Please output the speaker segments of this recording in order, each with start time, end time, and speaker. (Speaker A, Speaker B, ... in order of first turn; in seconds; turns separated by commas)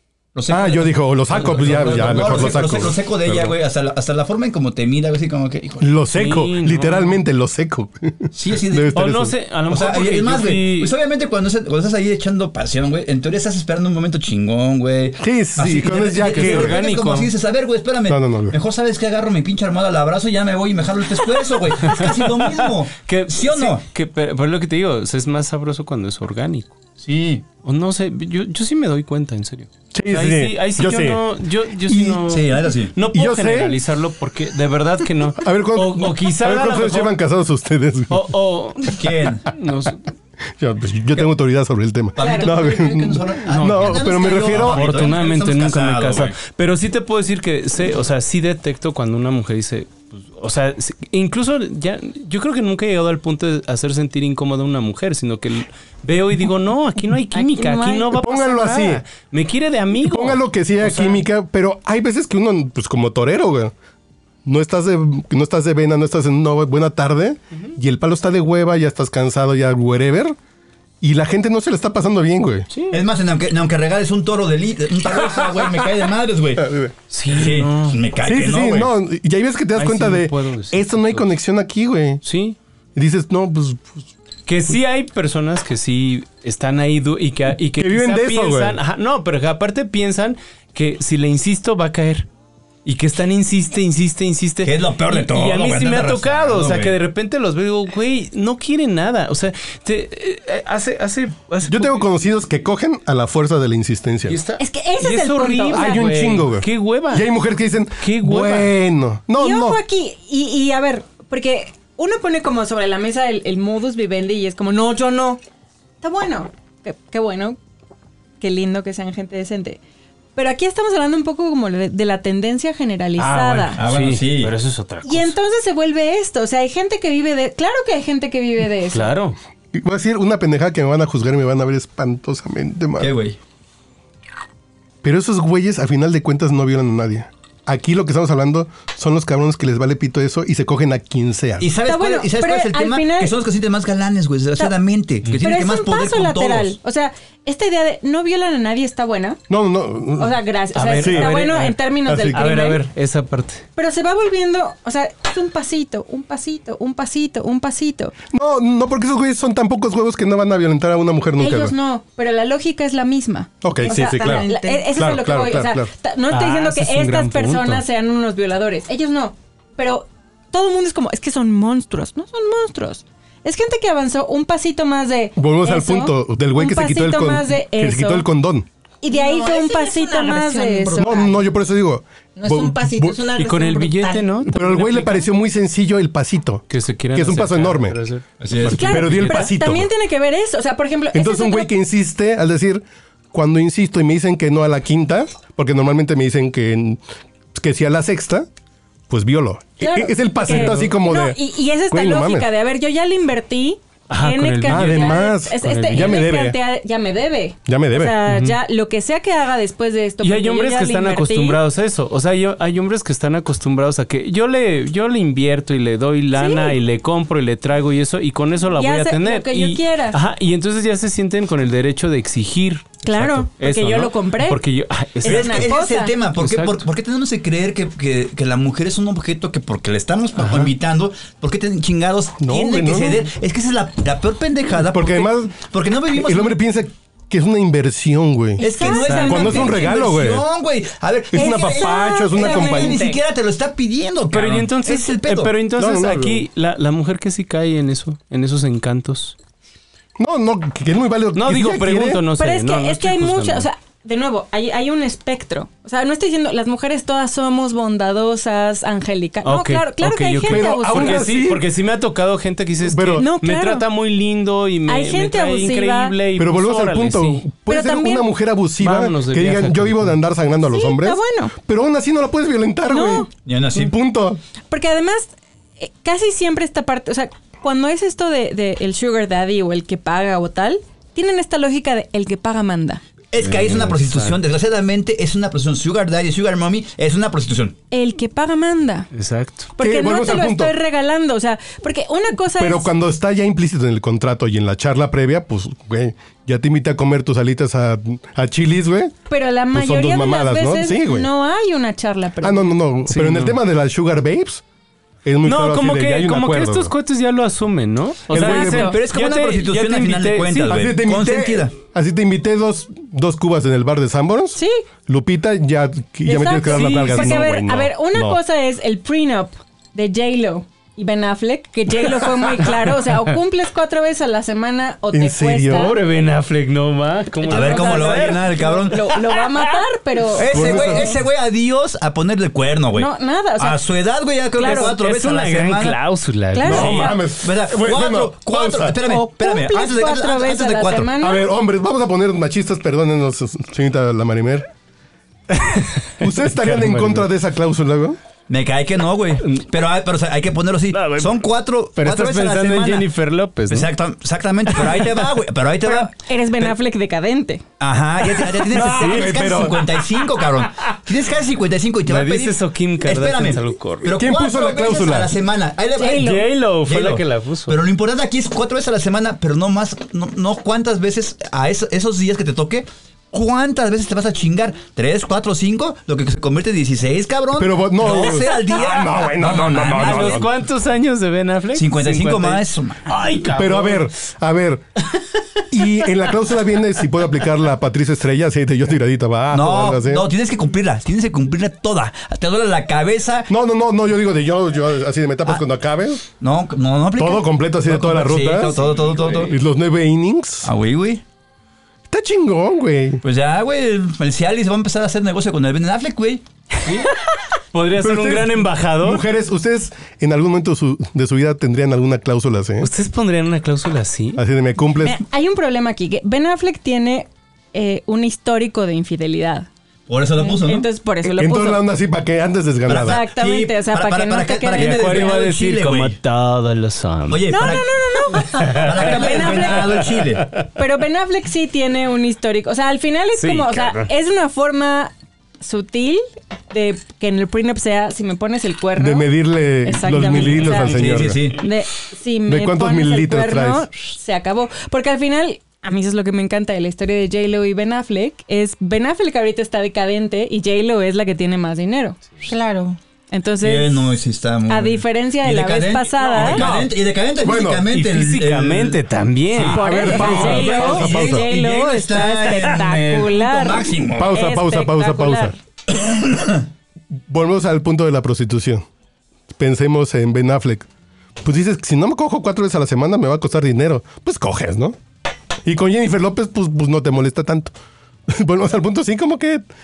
Speaker A: 0.3-6.0, Speaker B: 0.5-3.5, Speaker C: 2.0-2.5, Speaker B: 5.8-9.3, Speaker C: 6.1-7.2, Speaker A: 8.3-23.8, Speaker C: 8.9-10.9, Speaker B: 15.2-16.8, Speaker C: 16.2-17.3, Speaker B: 18.1-18.6, Speaker C: 21.9-26.8, Speaker A: 27.0-27.4, Speaker C: 27.6-37.2, Speaker B: 29.9-31.2, Speaker B: 31.9-32.2, Speaker A: 32.3-32.9, Speaker B: 33.1-33.8, Speaker B: 35.4-38.3, Speaker C: 38.1-40.0, Speaker A: 38.9-39.5, Speaker B: 40.6-45.0, Speaker A: 42.1-46.4, Speaker D: 42.2-42.5, Speaker C: 43.5-61.2, Speaker D: 57.3-58.4, Speaker B: 58.1-59.0, Speaker B: 60.0-63.7, Speaker B: 64.4-70.3, Speaker B: 71.0-72.7, Speaker C: 72.7-73.0, Speaker A: 72.9-76.7, Speaker B: 76.6-76.9, Speaker C: 77.1-78.0, Speaker A: 77.3-78.9, Speaker B: 78.2-82.2, Speaker C: 79.7-81.3, Speaker C: 82.2-82.6, Speaker B: 82.9-84.1, Speaker C: 84.5-92.3, Speaker B: 87.8-88.8, Speaker C: 92.8-102.0, Speaker A: 94.6-96.9, Speaker B: 101.7-104.4, Speaker C: 104.3-107.3, Speaker D: 104.6-106.1, Speaker B: 105.7-109.8, Speaker C: 108.0-108.7, Speaker D: 109.4-115.4, Speaker D: 116.0-117.6, Speaker D: 118.4-119.8, Speaker D: 120.3-123.8, Speaker C: 123.2-125.3, Speaker A: 123.8-124.5, Speaker D: 125.0-129.1, Speaker C: 128.9-129.3, Speaker B: 129.7-133.1, Speaker A: 133.0-133.4, Speaker B: 135.0-141.7, Speaker A: 141.6-146.8, Speaker D: 141.8-143.3, Speaker D: 145.3-149.4, Speaker B: 149.5-150.3, Speaker D: 150.2-152.8, Speaker C: 150.7-151.8, Speaker B: 151.0-151.4, Speaker B: 152.1-152.4, Speaker C: 152.3-153.6, Speaker D: 153.8-158.1, Speaker B: 158.3-161.7, Speaker D: 161.4-178.2, Speaker B: 163.6-165.9, Speaker E: 163.8-164.9, Speaker C: 166.3-167.8, Speaker B: 175.4-178.7, Speaker D: 179.0-181.1, Speaker E: 179.1-181.4, Speaker B: 181.0-183.2, Speaker E: 182.3-184.4, Speaker C: 183.3-185.2, Speaker B: 184.4-188.0, Speaker C: 186.7-189.5, Speaker A: 188.4-189.0, Speaker B: 188.6-189.9, Speaker D: 188.7-191.7, Speaker B: 191.1-197.0, Speaker B: 197.5-198.5, Speaker B: 199.1-201.4, Speaker D: 199.8-211.6, Speaker C: 200.5-200.9, Speaker B: 201.9-202.5, Speaker C: 204.1-206.2, Speaker B: 204.7-206.6, Speaker B: 207.7-208.2, Speaker C: 208.2-208.6, Speaker C: 210.2-225.7, Speaker D: 216.3-216.8, Speaker D: 218.7-220.2, Speaker D: 223.0-224.6, Speaker D: 225.2-226.1, Speaker A: 225.2-236.6, Speaker C: 226.4-226.8, Speaker B: 232.4-233.2, Speaker B: 234.8-235.6, Speaker B: 236.1-240.4, Speaker D: 238.6-239.9, Speaker A: 238.6-245.5, Speaker C: 238.9-239.6, Speaker B: 241.3-243.0, Speaker D: 241.3-243.2, Speaker C: 244.3-249.3, Speaker B: 245.8-246.4, Speaker B: 250.2-252.2, Speaker C: 251.3-253.7, Speaker D: 252.4-261.3, Speaker C: 259.4-267.4, Speaker B: 260.4-261.7, Speaker B: 262.8-263.3, Speaker D: 263.1-263.9, Speaker D: 264.9-266.1, Speaker B: 266.4-274.4, Speaker D: 267.7-268.3, Speaker C: 268.8-270.2, Speaker D: 270.7-271.5, Speaker D: 272.9-273.3, Speaker A: 273.4-273.9, Speaker D: 274.7-283.0, Speaker A: 283.3-287.8, Speaker C: 283.4-284.4, Speaker D: 287.9-289.1, Speaker C: 289.1-289.7, Speaker D: 289.8-292.9, Speaker B: 289.8-290.8, Speaker B: 292.6-299.1, Speaker D: 299.3-302.7, Speaker B: 299.7-301.3, Speaker B: 302.4-304.6, Speaker C: 303.1-303.6, Speaker B: 305.2-306.9, Speaker C: 305.4-310.9, Speaker B: 308.3-308.9, Speaker D: 308.3-309.0, Speaker A: 308.4-311.7, Speaker B: 310.7-318.4, Speaker D: 314.5-314.8, Speaker D: 316.2-326.0, Speaker C: 316.8-317.4, Speaker B: 325.1-325.9, Speaker C: 325.7-329.8, Speaker A: 327.4-329.1, Speaker D: 327.4-330.9, Speaker A: 330.4-336.0, Speaker B: 330.5-331.1, Speaker D: 332.9-333.8, Speaker D: 334.6-334.9, Speaker C: 334.6-337.1, Speaker D: 336.5-337.2, Speaker B: 336.6-339.0, Speaker A: 336.7-341.1, Speaker D: 339.0-341.5, Speaker B: 341.2-344.7, Speaker C: 345.5-347.3, Speaker B: 346.2-348.2, Speaker A: 348.5-353.1, Speaker C: 350.9-351.4, Speaker C: 352.0-353.9, Speaker A: 353.7-356.7, Speaker C: 354.7-355.1, Speaker D: 355.8-357.6, Speaker A: 357.8-380.4, Speaker C: 358.4-360.2, Speaker B: 358.7-359.8, Speaker C: 362.0-364.1, Speaker B: 364.1-365.3, Speaker D: 366.0-366.4, Speaker C: 366.1-367.8, Speaker B: 377.6-380.5, Speaker C: 379.8-384.1, Speaker A: 381.7-383.2, Speaker B: 383.5-384.8, Speaker B: 385.7-390.3, Speaker A: 389.5-393.5, Speaker B: 393.5-396.2, Speaker A: 396.4-399.5, Speaker B: 397.2-398.8, Speaker B: 399.4-400.7, Speaker A: 400.6-401.2, Speaker B: 402.1-403.2, Speaker A: 403.2-406.4, Speaker C: 406.8-407.1, Speaker C: 407.7-409.2, Speaker B: 408.0-412.9, Speaker C: 412.8-414.4, Speaker B: 414.4-415.2, Speaker D: 415.0-419.7, Speaker A: 420.1-420.9, Speaker D: 420.4-421.8, Speaker B: 421.2-423.2, Speaker A: 422.9-426.2, Speaker D: 422.9-425.3, Speaker C: 424.7-427.7, Speaker A: 427.3-430.4, Speaker D: 427.5-430.1, Speaker C: 428.5-430.6, Speaker D: 430.8-439.3, Speaker C: 433.4-434.1, Speaker B: 438.9-441.4, Speaker D: 439.8-452.2, Speaker C: 440.2-440.9, Speaker A: 440.7-441.6, Speaker B: 442.4-443.9, Speaker E: 452.4-453.0, Speaker D: 453.3-454.1, Speaker A: 453.6-459.0, Speaker D: 454.7-456.6, Speaker B: 456.4-457.8, Speaker C: 457.9-460.7, Speaker A: 459.5-464.4, Speaker D: 459.7-465.5, Speaker B: 459.7-461.5, Speaker B: 464.1-465.5, Speaker A: 465.9-466.6, Speaker B: 467.3-468.9, Speaker B: 469.6-470.9, Speaker B: 471.4-475.0, Speaker B: 475.6-477.7, Speaker B: 478.3-479.6